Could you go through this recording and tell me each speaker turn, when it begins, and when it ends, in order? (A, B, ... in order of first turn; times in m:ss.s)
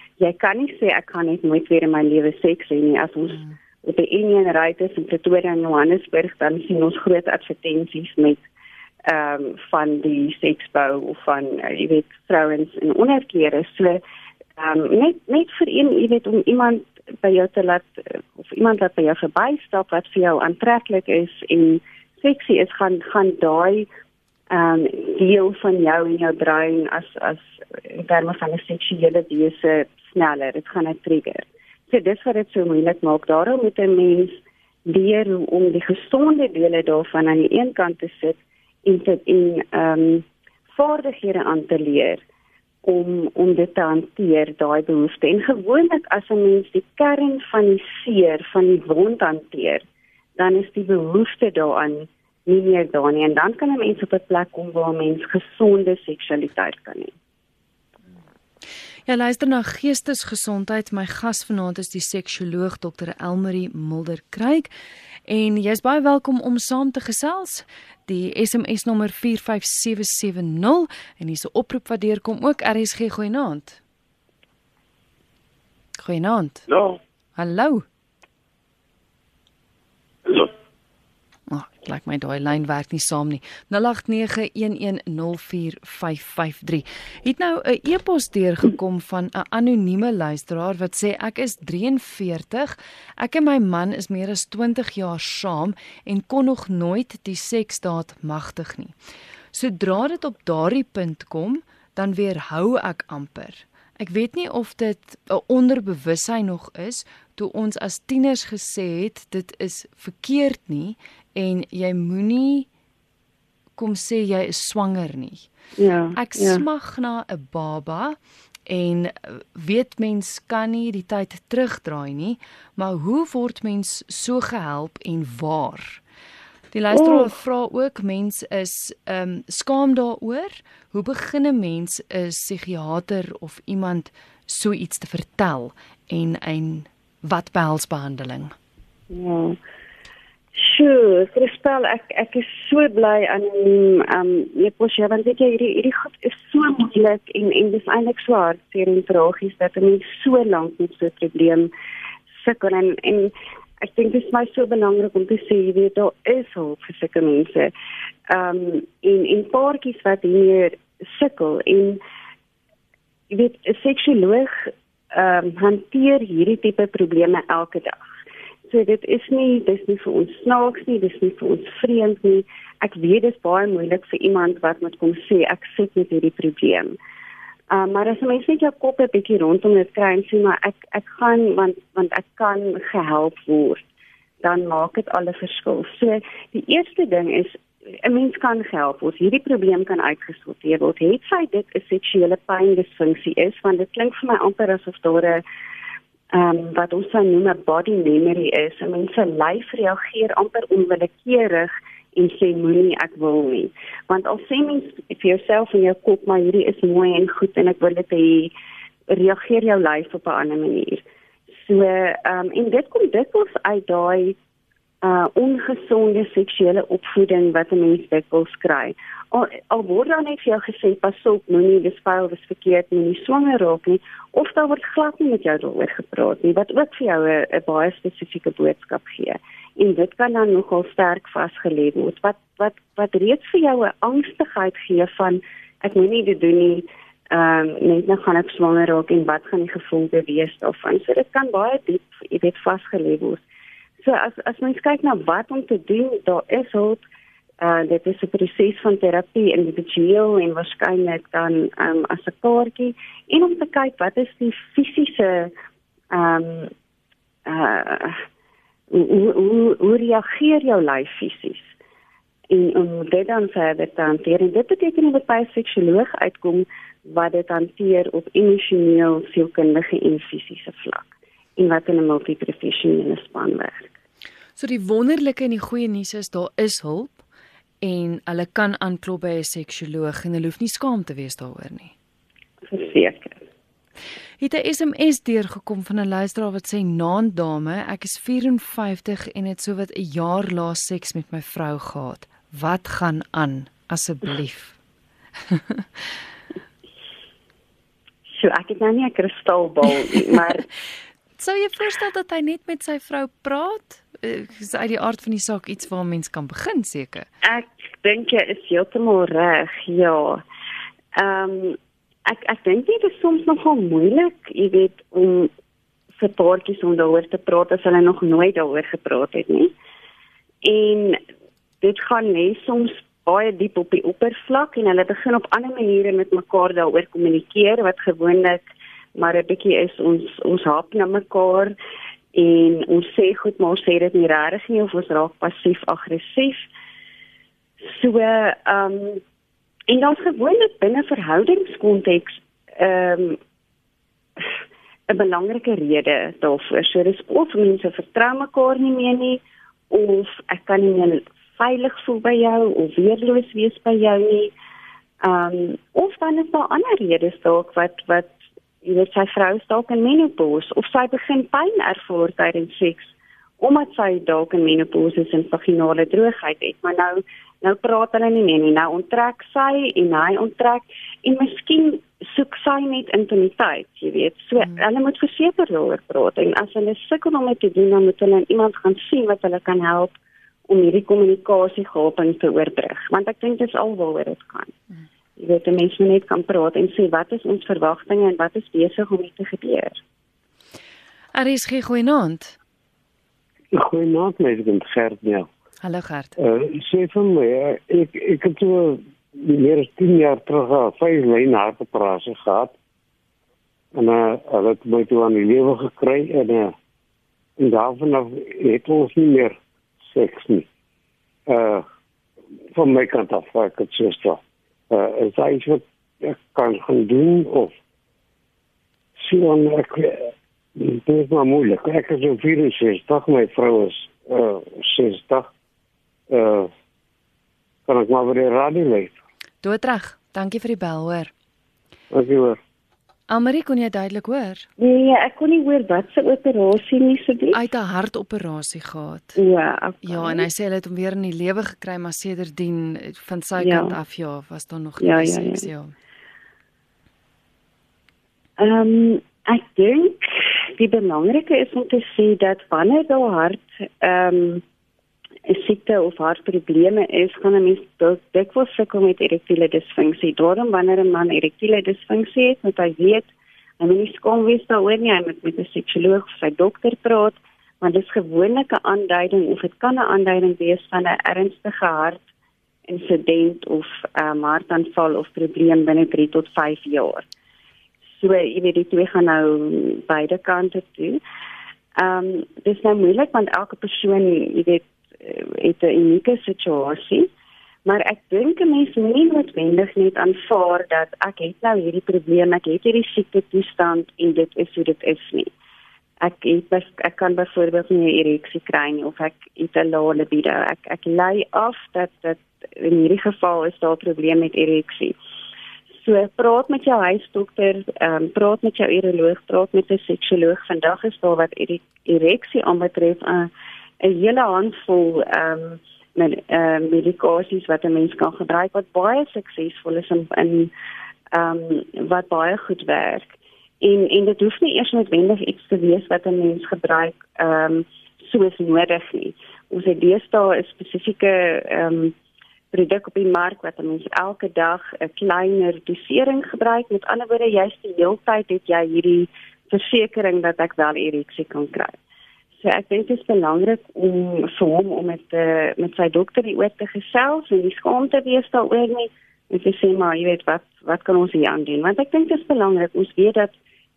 0:00.2-0:08.4 A
0:09.0-0:14.0 A
0:14.6-0:23.9 A
0:24.5-0:42.2 A
0:42.8-0:49.8 A
0:50.4-0:57.1 A
0:59.1-1:04.7 B
1:05.3-1:13.8 B
1:16.0-1:16.7 B
1:17.4-1:17.8 B
1:21.5-1:38.9 B
1:39.5-1:52.7 B
1:53.8-1:55.5 B
1:55.8-1:56.6 A
1:56.2-2:06.0 B
2:06.7-2:18.5 B
2:06.9-2:07.3 A
2:19.1-2:19.6 A
2:20.5-2:31.7 A
2:32.4-2:37.7 A
2:38.3-2:42.0 A
2:43.3-2:48.0 A
2:48.7-2:57.0 A
2:57.7-3:03.8 A
3:04.4-3:15.4 A
3:16.3-3:28.5 A
3:29.1-3:34.4 A
3:35.0-4:03.4 A
4:04.0-4:07.0 A
4:07.6-4:15.5 A
4:16.1-4:16.7 A
4:17.4-4:18.2 A
4:18.9-4:21.7 A
4:22.5-4:33.9 A
4:34.6-4:37.2 B
4:37.8-4:41.9 B
4:42.6-4:43.4 A
4:44.4-4:54.8 B
4:55.5-4:56.0 B
4:58.3-5:00.6 A
5:01.4-5:07.3 B
5:07.4-5:10.4 A
5:11.1-5:15.5 A
5:16.2-5:19.7 A
5:20.6-5:21.2 A
5:21.8-5:31.7 A
5:32.3-5:36.7 A
5:37.8-5:39.2 A
5:39.9-5:43.4 A
5:45.1-5:54.5 A
5:55.2-6:24.7 A
6:25.4-6:30.0 A
6:31.3-6:32.6 B
6:33.7-6:35.5 C
6:35.8-6:36.4 B
6:36.4-6:42.7 C
6:43.9-6:46.7 C
6:47.6-6:50.7 C
6:51.5-6:51.8 C
6:52.7-6:57.7 C
6:59.2-7:05.5 C
7:06.3-7:06.7 C
7:07.9-7:09.1 C
7:09.6-7:11.3 B
7:12.1-7:12.6 C
7:13.3-7:14.7 B
7:14.8-7:17.6 A
7:17.5-7:19.4 B
7:19.4-7:20.4 A
7:20.0-7:25.9 B
7:23.6-7:23.9 A
7:25.0-7:25.6 A
7:28.6-7:34.6 A
7:35.4-7:52.2 A
7:52.9-7:57.2 A
7:58.1-8:01.2 A
8:02.0-8:07.3 A
8:07.8-8:15.5 A
8:16.2-8:25.1 A
8:26.0-8:33.5 A
8:34.0-8:40.7 A
8:41.3-8:52.1 A
8:52.7-9:02.0 A
9:02.6-9:13.6 A